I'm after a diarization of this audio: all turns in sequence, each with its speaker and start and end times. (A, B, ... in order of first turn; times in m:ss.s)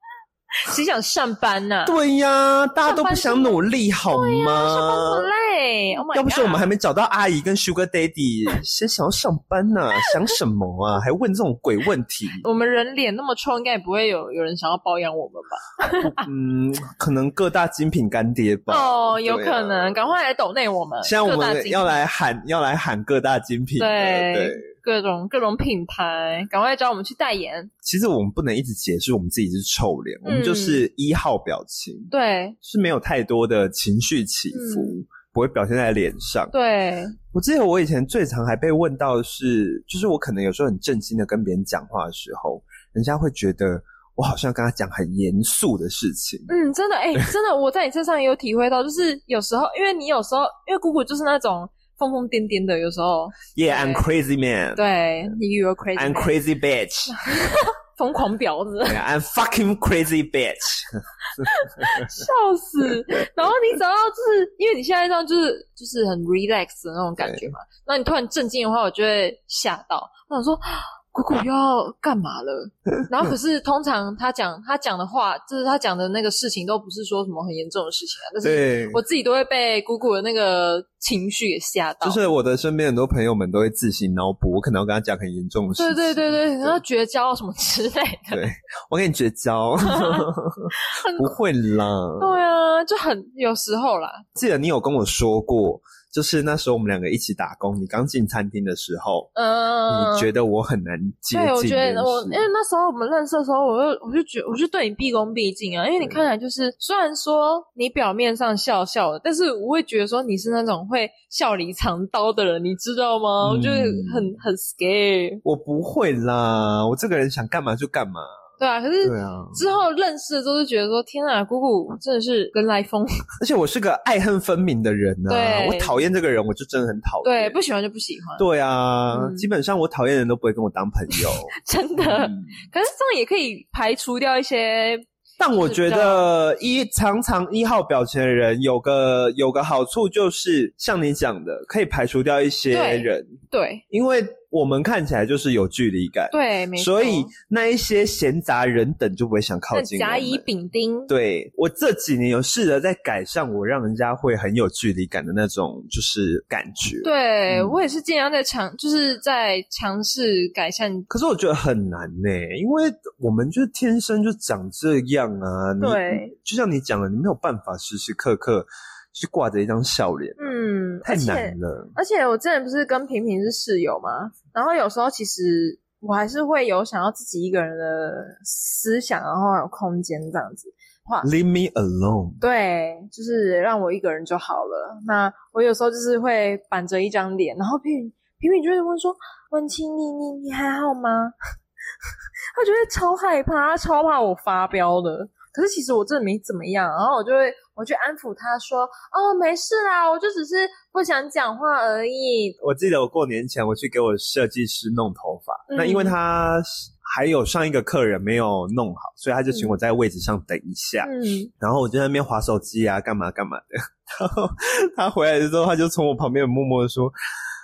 0:00.6-0:01.9 A
0:01.8-0:05.2 B
0:02.8-0:06.6 A
0:06.1-0:12.4 B
0:12.4-0:16.2 A
0:16.0-0:20.1 B
0:18.7-0:21.9 A
0:21.0-0:24.6 B
0:23.8-0:27.7 A
0:27.8-0:32.1 B
0:30.2-0:30.8 A
0:32.1-0:32.6 A
0:32.6-0:36.5 B
0:34.5-0:34.9 A
0:36.5-0:37.2 A
0:37.3-0:46.5 B
0:46.5-0:54.1 A
0:53.6-0:54.8 B
0:54.8-0:56.4 A
0:56.0-0:57.1 B
0:57.1-0:59.0 A
0:58.8-1:02.1 B
1:01.4-1:22.2 A
1:07.2-1:07.5 B
1:18.4-1:19.0 B
1:22.0-1:26.8 B
1:25.8-1:28.4 A
1:28.3-1:32.4 B
1:29.8-1:31.4 A
1:32.2-1:34.2 A
1:34.4-1:39.3 B
1:39.4-1:40.3 A
1:39.9-1:42.5 B
1:41.3-1:55.4 A
1:53.4-1:54.3 B
1:55.4-1:58.3 B
1:58.6-2:03.2 A
1:59.0-1:59.6 B
2:03.4-2:07.6 B
2:05.3-2:06.0 A
2:07.2-2:08.4 A
2:08.4-2:12.4 B
2:09.1-2:09.4 A
2:11.1-2:16.2 A
2:15.4-2:23.4 B
2:22.7-2:23.8 A
2:23.9-2:30.4 B
2:26.3-2:27.3 A
2:29.7-2:31.1 A
2:31.1-2:37.8 B
2:37.0-2:41.1 A
2:41.1-2:51.9 B
2:45.8-2:46.4 A
2:50.4-3:01.3 A
3:01.2-3:02.4 B
3:02.4-3:11.3 A
3:12.6-3:22.6 A
3:22.6-3:37.1 B
3:25.7-3:26.1 A
3:31.0-3:31.5 A